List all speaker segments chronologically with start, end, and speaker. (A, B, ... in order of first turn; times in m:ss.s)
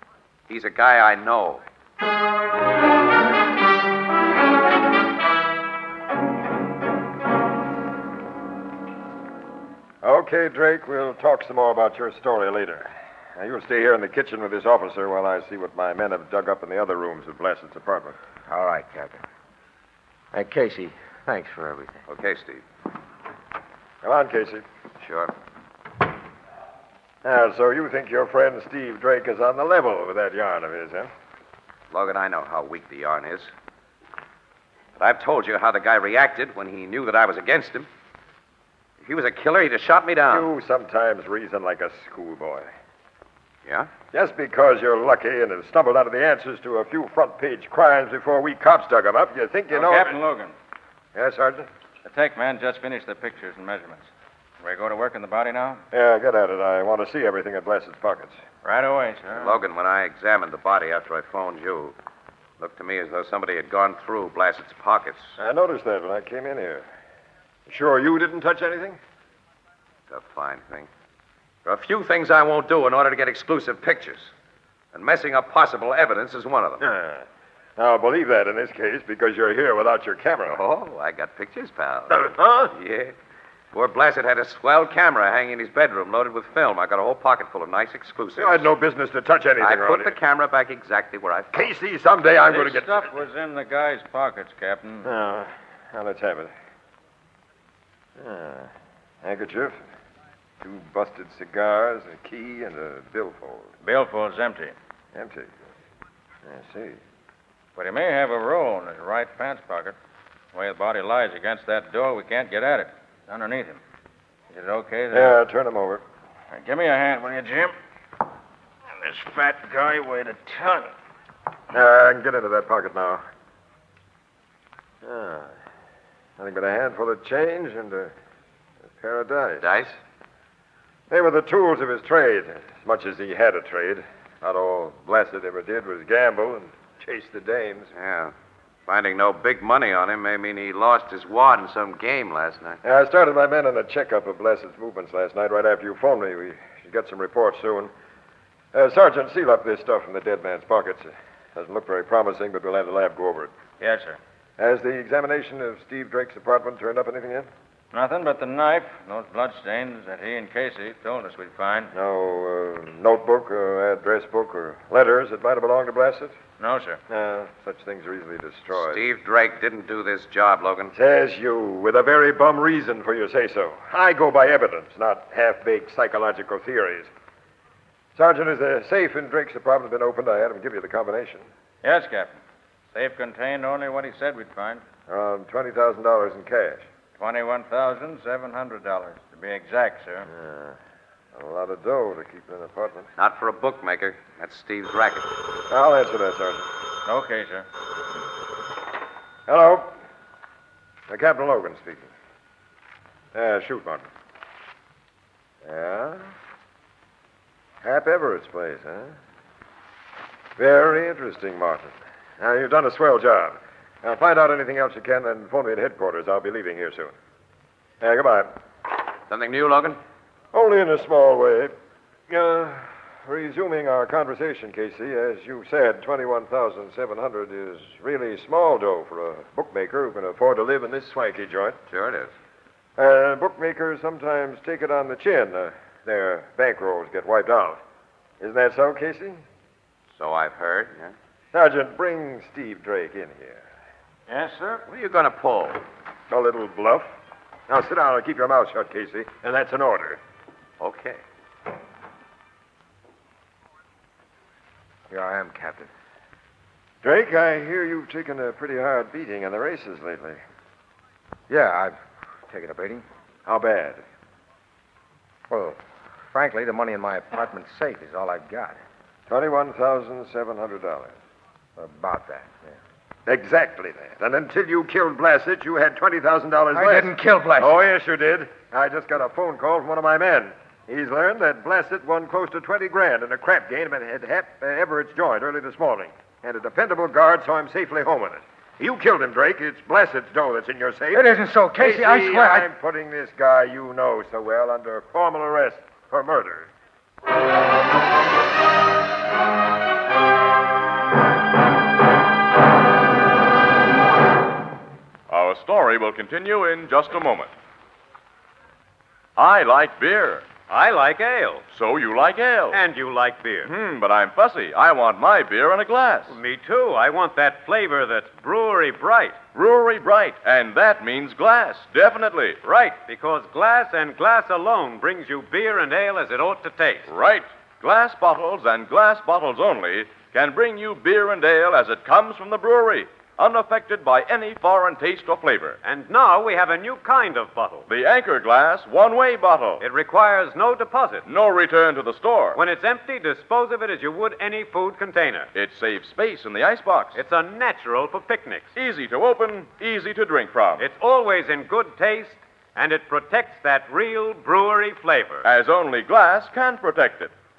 0:00.5-0:01.6 A
0:10.0-0:18.2 B
0:18.5-0:19.2 C
0:20.3-0:22.0 C
0:22.1-0:22.6 A
0:24.0-0:24.6 B
0:25.0-0:25.3 A
0:27.2-0:31.1 B
0:31.9-0:33.5 A
0:35.0-0:37.9 A
0:39.0-0:40.5 A
0:40.3-0:42.7 B
0:44.1-0:50.2 B
0:49.7-0:50.5 D
0:51.1-0:51.7 B
0:52.0-0:55.8 D
0:55.9-0:58.4 B
0:58.6-0:59.5 D
0:59.4-1:01.9 A
1:02.6-1:05.4 A
1:05.4-1:06.9 B
1:07.7-1:09.0 B
1:10.1-1:10.9 A
1:11.6-1:14.3 A
1:14.9-1:16.8 A
1:16.8-1:17.2 B
1:17.8-1:20.6 B
1:20.5-1:23.1 A
1:22.1-1:22.7 B
1:23.7-1:28.7 A
1:28.4-1:30.1 B
1:29.6-1:31.5 A
1:31.5-1:33.0 B
1:32.4-1:35.1 D
1:35.0-1:36.5 B
1:38.2-1:38.7 B
1:39.2-1:39.8 B
1:40.6-1:43.7 B
1:43.8-1:44.7 D
1:45.1-1:45.5 B
1:46.4-1:47.0 B
1:47.8-1:50.0 D
1:50.5-1:53.8 D
1:54.5-1:55.4 D
1:55.1-1:56.0 B
1:56.5-1:57.7 D
1:59.0-2:00.9 D
2:01.7-2:03.2 B
2:05.0-2:05.5 B
2:06.4-2:08.1 B
2:09.0-2:09.7 B
2:09.6-2:10.0 A
2:11.1-2:17.9 B
2:17.9-2:18.3 A
2:18.9-2:22.8 A
2:22.8-2:27.9 B
2:28.7-2:33.5 B
2:33.8-2:34.2 D
2:34.6-2:37.5 B
2:37.9-2:41.9 D
2:41.9-2:46.3 B
2:46.6-2:47.0 D
2:47.1-2:49.0 B
2:48.7-2:50.9 A
2:50.9-2:57.1 B
2:58.2-3:01.4 B
3:01.8-3:02.4 D
3:02.9-3:04.8 D
3:05.1-3:06.8 B
3:07.2-3:10.3 D
3:10.3-3:10.8 B
3:11.3-3:13.1 B
3:13.2-3:15.3 A
3:15.7-3:16.7 B
3:17.0-3:17.6 D
3:19.5-3:19.9 B
3:21.1-3:22.1 B
3:23.3-3:24.0 B
3:25.6-3:26.2 B
3:27.8-3:29.1 B
3:30.6-3:37.1 B
3:38.0-3:38.5 B
3:39.3-3:40.0 A
3:40.5-3:41.7 B
3:42.3-3:51.8 B
3:51.9-3:52.3 A
3:53.0-3:57.8 B
3:58.4-3:59.4 B
4:00.2-4:01.1 A
4:01.5-4:03.6 B
4:04.3-4:04.8 D
4:04.9-4:05.8 A
4:06.3-4:07.1 B
4:07.7-4:10.2 B
4:10.8-4:11.2 A
4:15.1-4:15.9 C
4:17.0-4:20.4 B
4:21.5-4:23.0 C
4:23.4-4:24.0 B
4:25.5-4:25.8 C
4:26.3-4:28.8 C
4:29.3-4:31.1 B
4:31.8-4:32.7 C
4:33.2-4:51.2 B
4:36.7-4:37.8 C
4:51.1-4:52.7 C
4:51.8-4:56.7 B
5:05.3-5:07.5 E
5:09.4-5:10.5 E
5:10.7-5:11.6 F
5:11.7-5:12.8 E
5:12.7-5:13.7 F
5:13.6-5:16.4 E
5:16.3-5:19.4 F
5:19.5-5:22.6 E
5:22.6-5:27.1 F
5:27.1-5:35.8 E
5:35.8-5:37.8 F
5:37.9-5:39.8 E
5:39.8-5:41.2 F
5:41.2-5:42.6 E
5:42.5-5:45.5 F
5:45.5-5:47.2 E
5:47.1-5:48.7 F
5:48.7-5:50.8 E
5:50.8-5:55.4 F
5:55.4-5:57.3 E